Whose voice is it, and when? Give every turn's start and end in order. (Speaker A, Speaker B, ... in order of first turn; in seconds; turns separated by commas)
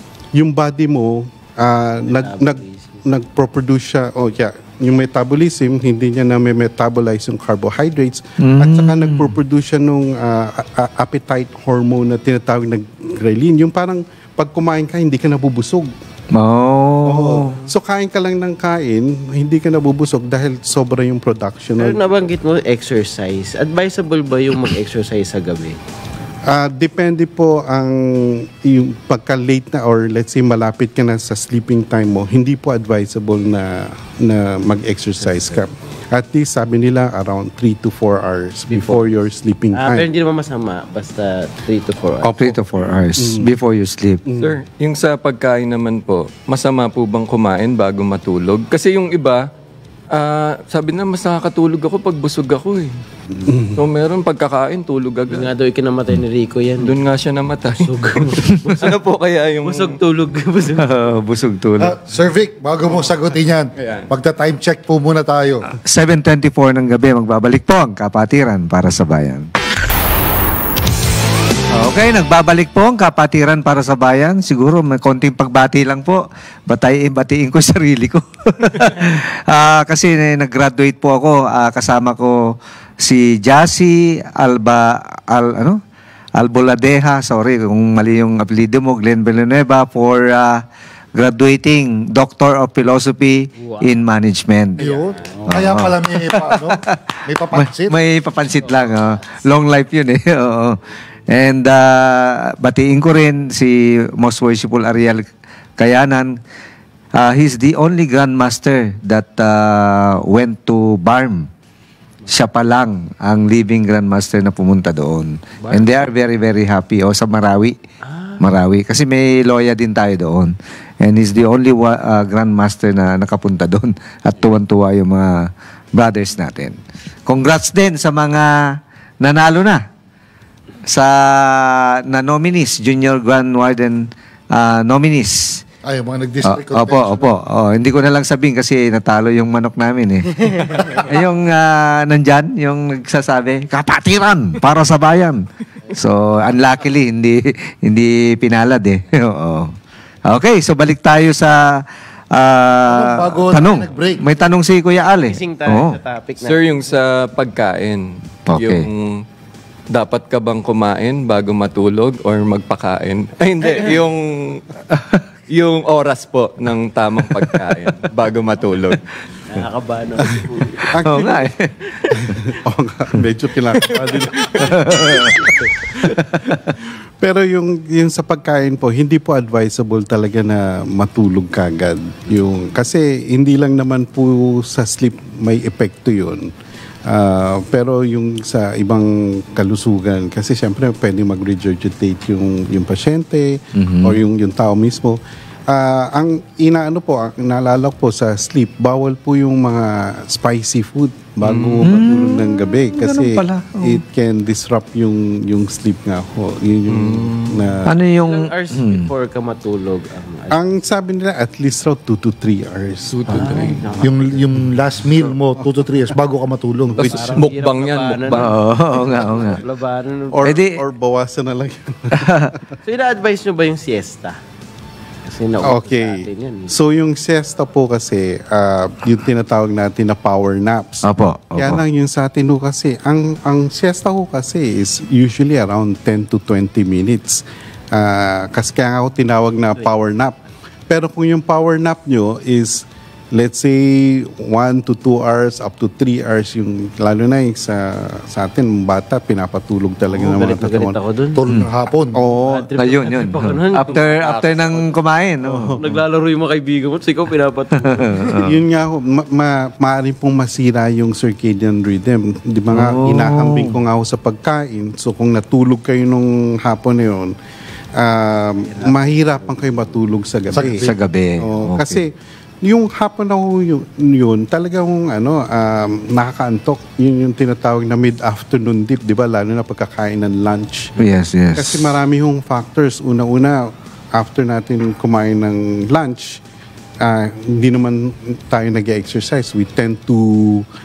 Speaker A: 0.3-15.9, Speaker B: 2.0-3.0, Speaker C: 8.4-9.3, Speaker C: 16.3-17.6, Speaker A: 17.0-22.1, Speaker B: 21.8-25.8, Speaker A: 26.5-40.1, Speaker B: 35.2-35.7, Speaker B: 38.7-39.0, Speaker B: 39.7-42.5, Speaker A: 42.2-43.5, Speaker C: 42.4-44.2, Speaker A: 44.3-44.6, Speaker D: 44.4-49.4, Speaker D: 50.1-52.9, Speaker A: 53.5-53.8, Speaker D: 53.8-55.5, Speaker B: 55.3-56.9, Speaker D: 56.8-60.0, Speaker B: 57.8-59.0, Speaker B: 59.6-61.0, Speaker C: 60.8-62.0, Speaker E: 61.8-65.7, Speaker D: 63.8-64.1, Speaker C: 65.8-69.5, Speaker C: 71.7-82.4, Speaker C: 83.0-85.8, Speaker C: 86.4-90.6, Speaker C: 91.2-94.9, Speaker B: 93.6-93.9, Speaker E: 94.8-97.9, Speaker B: 94.8-95.5, Speaker C: 95.5-105.2, Speaker B: 98.6-99.2, Speaker C: 105.8-106.4, Speaker C: 107.2-111.5, Speaker C: 112.3-117.8, Speaker B: 115.6-116.1, Speaker B: 118.0-118.4, Speaker C: 118.4-129.8, Speaker C: 130.9-134.0, Speaker C: 134.5-135.6, Speaker E: 135.8-137.4, Speaker C: 136.4-149.7, Speaker C: 150.3-151.6, Speaker C: 152.3-156.0, Speaker E: 152.9-154.3, Speaker B: 155.1-157.1, Speaker D: 156.4-159.2, Speaker C: 158.5-158.9, Speaker D: 159.9-164.6, Speaker C: 164.9-165.2, Speaker D: 165.5-169.1, Speaker B: 169.5-170.9, Speaker A: 170.9-171.5, Speaker C: 171.0-171.7, Speaker A: 172.2-186.5, Speaker C: 174.6-175.4, Speaker C: 176.3-176.7, Speaker A: 187.1-207.9, Speaker C: 193.8-194.2, Speaker D: 201.4-201.9, Speaker C: 201.8-204.0, Speaker D: 206.9-207.7, Speaker C: 207.8-209.1, Speaker B: 208.2-210.6, Speaker A: 210.5-213.6, Speaker D: 213.1-213.8, Speaker B: 213.3-214.5, Speaker E: 214.0-217.4, Speaker B: 216.9-220.6, Speaker D: 217.0-218.5, Speaker C: 218.3-219.6, Speaker A: 220.3-222.3, Speaker C: 220.4-220.8, Speaker C: 222.2-222.5, Speaker B: 222.8-224.4, Speaker B: 225.2-226.8, Speaker A: 225.6-231.0, Speaker C: 231.0-231.8, Speaker A: 231.6-240.4, Speaker A: 240.9-251.0, Speaker B: 250.1-251.4, Speaker E: 251.4-252.2, Speaker A: 252.1-252.7, Speaker B: 252.3-255.0, Speaker C: 252.8-255.9, Speaker A: 255.4-255.8, Speaker B: 255.8-258.4, Speaker C: 257.8-258.6, Speaker A: 258.3-267.3, Speaker C: 262.7-263.8, Speaker A: 267.9-280.9, Speaker B: 268.7-270.0, Speaker E: 270.5-270.9, Speaker C: 270.6-272.0, Speaker C: 281.0-281.9, Speaker A: 281.6-286.4, Speaker A: 287.0-290.6